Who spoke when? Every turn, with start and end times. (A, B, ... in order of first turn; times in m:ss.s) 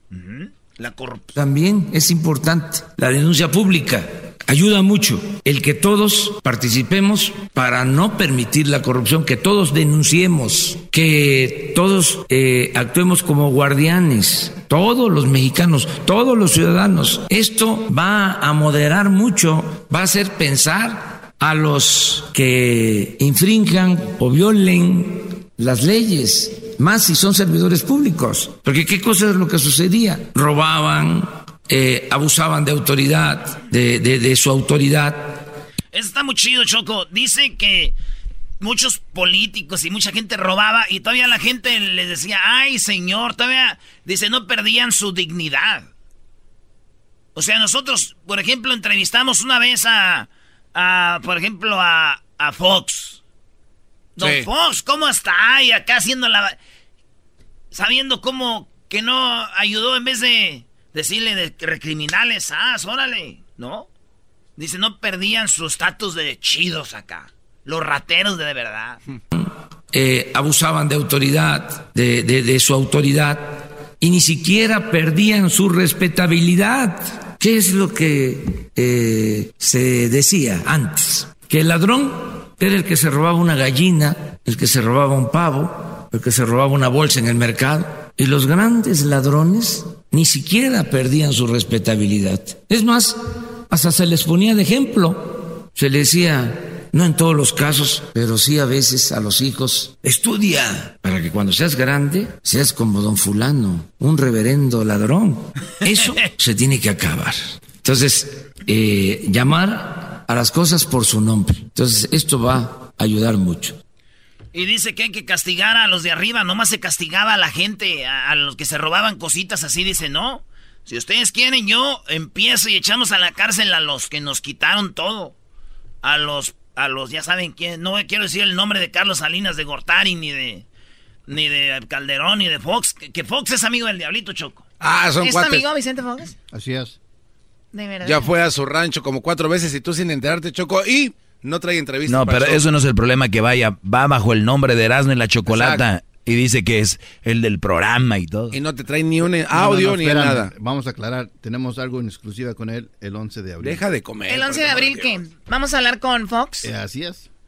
0:00.1-0:01.3 A
0:01.4-0:35.3 B
0:35.9-0:38.0 A
0:38.6-0:45.9 A
0:47.4-0:53.2 A
0:54.2-0:56.6 A
0:54.2-0:54.5 C
0:57.7-1:03.9 A
1:04.6-1:09.0 A
1:09.3-1:33.2 B
1:33.7-1:53.8 B
1:54.5-2:05.4 A
2:06.0-2:10.6 A
2:11.3-2:14.6 A
2:14.8-2:15.7 C
2:15.2-2:16.4 D
2:16.5-2:17.0 E
2:17.7-2:18.3 D
2:18.0-2:22.6 C
2:22.1-2:28.6 F
2:25.5-2:25.8 C
2:28.5-2:30.5 C
2:29.5-2:33.8 E
2:33.6-2:35.3 C
2:34.3-2:36.7 D
2:36.6-2:37.3 E